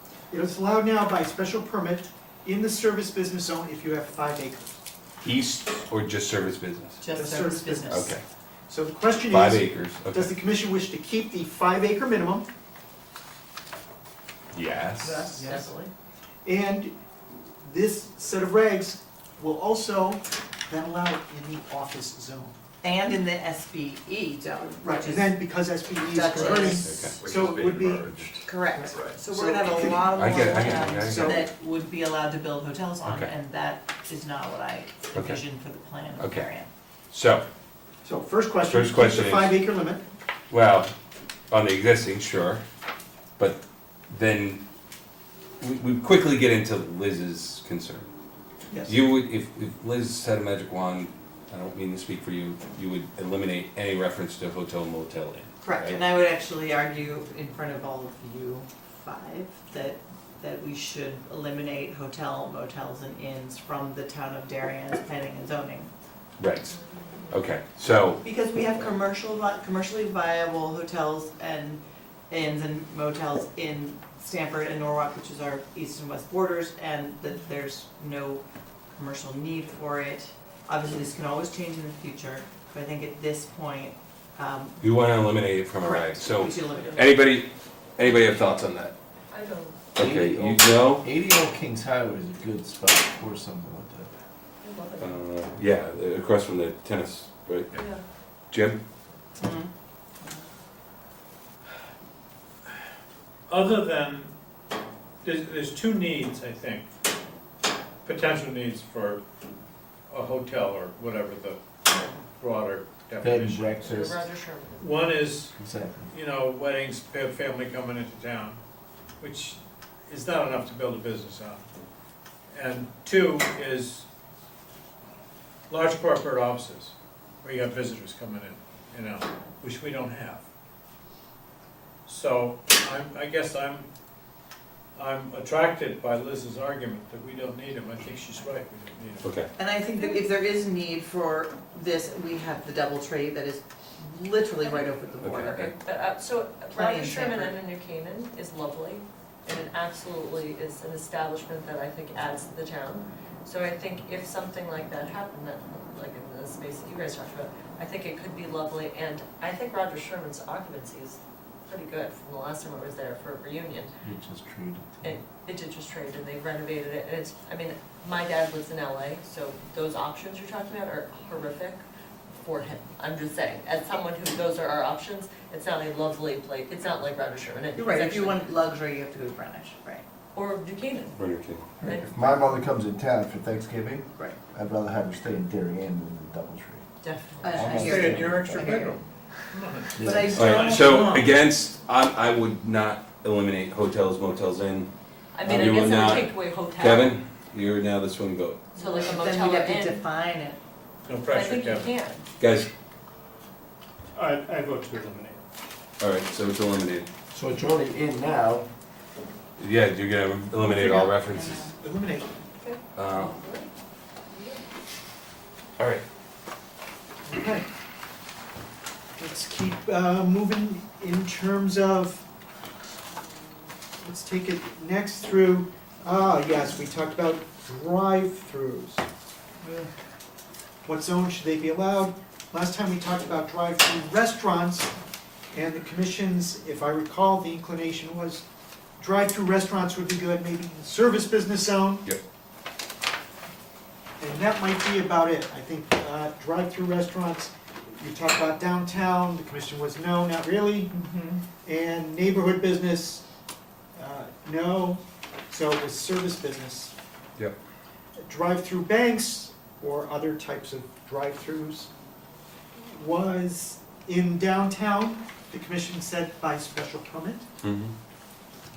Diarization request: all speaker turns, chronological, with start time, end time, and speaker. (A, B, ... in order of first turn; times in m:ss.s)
0:00.3-0:04.8 A
0:05.2-0:07.0 B
0:07.0-0:08.2 C
0:07.1-0:08.1 A
0:07.9-0:08.2 B
0:08.7-0:12.5 A
0:09.2-0:10.3 B
0:14.5-0:15.2 B
0:15.0-0:15.9 C
0:15.3-0:15.7 A
0:16.4-0:16.9 A
0:17.6-0:22.6 A
0:22.8-0:25.4 C
0:24.8-0:31.5 A
0:26.1-0:26.9 C
0:26.7-0:28.2 B
0:28.4-0:36.7 C
0:30.1-0:31.4 B
0:33.0-0:33.3 B
0:35.1-0:35.4 B
0:36.2-0:36.5 B
0:37.1-0:37.4 B
0:38.0-0:40.0 A
0:38.6-0:39.6 B
0:40.5-0:40.9 B
0:41.5-0:42.6 B
0:43.4-0:44.6 B
0:45.6-0:48.1 B
0:48.7-0:49.0 C
0:48.8-0:56.0 B
0:55.6-1:05.9 C
1:06.4-1:06.7 B
1:06.7-1:07.3 D
1:07.3-1:08.2 B
1:08.2-1:24.9 C
1:24.8-1:28.9 B
1:25.8-1:27.2 C
1:29.3-1:29.8 D
1:29.9-1:31.0 B
1:30.0-1:34.2 E
1:34.6-1:35.2 D
1:35.0-1:37.8 B
1:37.7-1:38.0 D
1:38.5-1:38.8 B
1:39.4-1:39.7 C
1:43.5-1:44.3 F
1:45.2-1:46.9 F
1:48.0-1:49.2 F
1:50.1-1:53.8 F
1:53.2-1:54.2 E
1:53.8-1:55.1 D
1:54.8-1:55.5 F
1:55.5-1:56.1 E
1:56.1-1:58.6 F
1:59.2-2:01.6 F
2:02.5-2:04.0 F
2:05.7-2:10.4 F
2:12.0-2:13.8 F
2:14.9-2:19.2 F
2:19.2-2:19.5 B
2:19.6-2:25.6 C
2:20.0-2:20.2 D
2:24.6-2:24.9 D
2:25.2-2:25.7 B
2:25.5-2:43.9 D
2:26.7-2:27.6 C
2:44.0-2:45.2 E
2:45.0-2:58.4 D
2:57.7-3:00.0 C
3:00.3-3:01.2 D
3:01.2-3:01.7 B
3:01.8-3:02.1 D
3:01.8-3:06.8 E
3:07.0-3:08.0 D
3:07.4-3:09.0 C
3:07.5-3:09.0 E
3:07.8-3:09.0 F
3:09.5-3:11.1 F
3:10.0-3:10.4 E
3:10.0-3:11.3 C
3:10.3-3:14.9 B
3:15.3-3:17.2 D
3:15.4-3:18.6 B
3:18.8-3:20.0 D
3:18.8-3:20.6 C
3:21.0-3:21.9 F
3:21.3-3:22.3 D
3:22.4-3:22.7 B
3:26.0-3:27.1 B
3:27.3-3:28.7 E
3:29.6-3:31.7 B
3:30.7-3:31.1 A
3:31.3-3:31.7 C
3:31.8-3:32.4 A
3:32.6-3:33.7 D
3:32.9-3:33.4 B
3:34.3-3:34.6 D
3:35.8-3:36.0 B
3:37.2-3:37.7 A
3:39.2-3:42.2 A
3:44.0-3:49.0 A
3:50.8-3:54.9 A
3:55.5-3:58.4 A
3:59.0-4:02.1 A
4:04.2-4:10.9 A
4:10.9-4:11.4 C
4:11.6-4:13.2 A
4:13.9-4:16.9 A
4:18.2-4:21.9 A
4:22.8-4:27.5 A
4:27.6-4:27.9 B